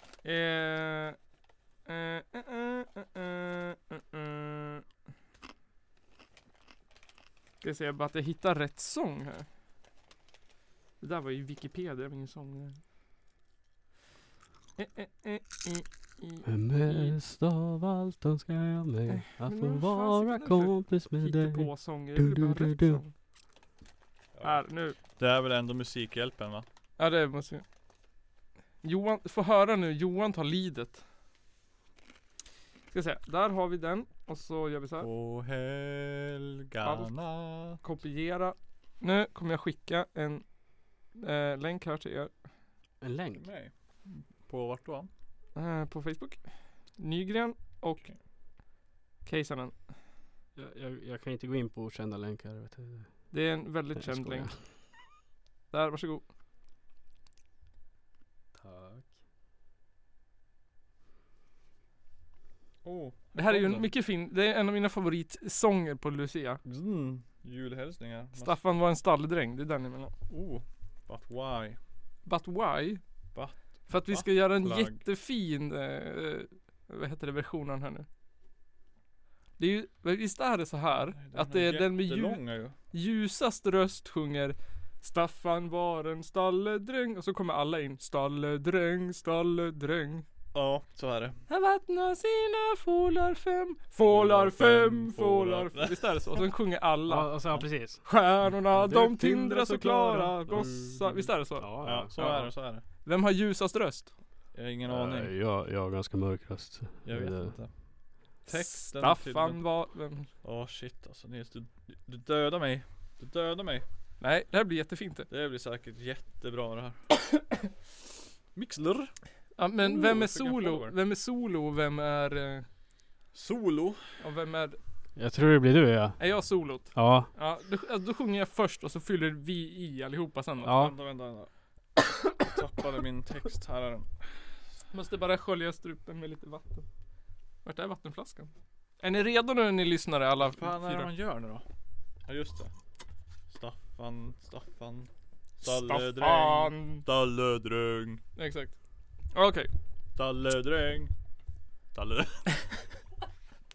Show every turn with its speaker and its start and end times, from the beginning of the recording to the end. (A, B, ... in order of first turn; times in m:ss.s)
0:00.2-0:01.2 A
0:01.9-0:04.8 A
0:07.6-0:09.5 A
0:11.0-0:12.8 A
0:14.8-0:17.1 A
0:16.4-0:23.0 B
0:19.5-0:23.1 A
0:24.4-0:24.6 C
0:24.4-0:25.0 A
0:25.2-0:26.6 C
0:27.0-0:27.6 A
0:28.8-0:31.0 A
0:32.9-0:35.1 A
0:35.0-0:37.8 C
0:36.8-0:37.1 A
0:37.6-0:40.4 A
0:41.1-0:42.3 A
0:43.0-0:43.4 B
0:43.4-0:45.1 C
0:45.6-0:46.4 A
0:47.0-0:48.1 A
0:49.2-0:49.7 A
0:50.6-0:53.1 B
0:53.3-0:54.5 A
0:54.0-0:54.5 B
0:55.7-0:56.2 A
0:58.6-0:59.1 B
1:02.8-1:03.9 C
1:03.4-1:06.6 A
1:06.6-1:08.6 C
1:08.4-1:10.1 A
1:10.3-1:11.8 C
1:12.3-1:13.0 A
1:13.4-1:15.0 C
1:13.9-1:18.1 A
1:19.6-1:30.2 A
1:21.2-1:22.8 C
1:30.5-1:31.4 C
1:31.5-1:37.3 A
1:34.1-1:36.4 C
1:37.1-1:38.0 B
1:38.0-1:44.1 A
1:38.8-1:42.1 B
1:41.8-1:42.8 C
1:44.5-1:45.3 C
1:44.9-1:47.6 B
1:47.0-1:47.8 C
1:48.4-1:49.6 C
1:48.5-1:50.3 A
1:50.4-1:53.9 C
1:54.2-1:55.3 A
1:55.3-1:57.0 C
1:58.6-1:59.1 C
1:59.6-2:02.7 A
1:59.8-2:00.9 C
2:03.3-2:04.0 C
2:04.2-2:04.8 A
2:05.2-2:06.2 B
2:06.2-2:10.9 A
2:06.9-2:07.3 B
2:10.6-2:11.5 C
2:10.6-2:10.9 B
2:12.3-2:14.3 C
2:14.9-2:16.9 A
2:17.6-2:18.5 A
2:19.0-2:21.1 A
2:20.4-2:21.6 C
2:22.3-2:22.7 C
2:23.5-2:25.1 C
2:25.6-2:28.2 C
2:25.6-2:27.0 A
2:28.4-2:28.8 A
2:29.3-2:29.7 A
2:30.2-2:31.1 C
2:31.9-2:32.5 C